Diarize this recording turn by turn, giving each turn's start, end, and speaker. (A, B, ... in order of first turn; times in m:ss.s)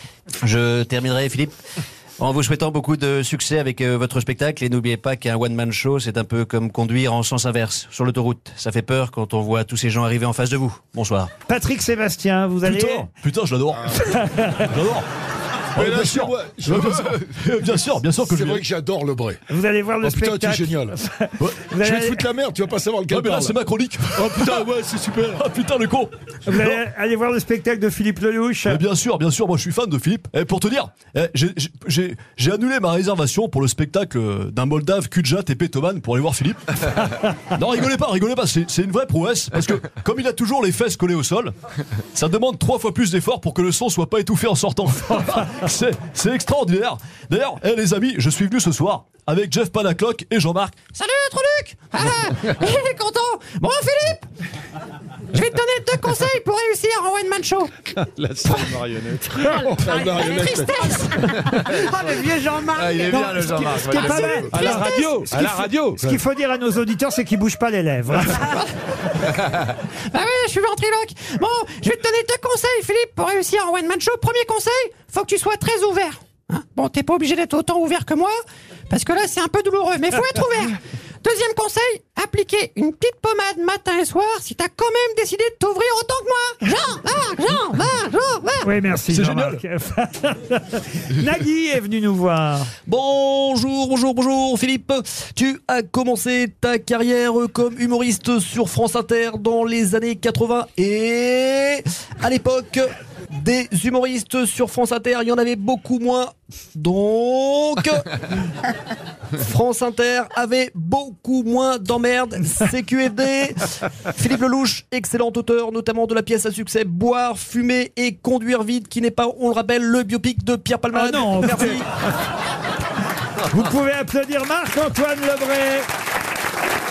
0:00.4-0:01.5 A
0:02.2-0:11.3 A
0:11.5-0:13.1 B
0:12.6-0:14.0 C
0:14.0-0:14.7 B
0:14.6-0:15.1 C
0:15.7-0:17.2 D
0:15.7-0:18.6 C
0:18.2-0:19.4 D
0:19.5-0:22.3 B
0:20.0-0:20.9 D
0:21.4-0:21.7 C
0:21.8-0:23.6 D
0:23.1-0:24.8 C
0:24.1-0:25.4 D
0:25.3-0:26.8 C
0:26.4-0:28.8 B
0:28.6-0:41.5 C
0:42.1-0:50.8 C
0:50.9-0:54.3 E
0:55.3-0:57.9 E
0:57.9-0:59.4 F
0:58.4-0:58.8 E
0:59.3-1:05.3 E
0:59.6-1:01.0 D
1:01.6-1:01.9 F
1:02.8-1:06.1 F
1:03.1-1:08.5 B
1:08.4-1:18.4 E
1:18.9-1:28.7 E
1:28.6-1:32.7 B
1:29.1-1:29.6 C
1:32.9-1:48.4 A
1:49.3-2:01.9 A
2:00.9-2:01.8 B
2:03.5-2:05.9 B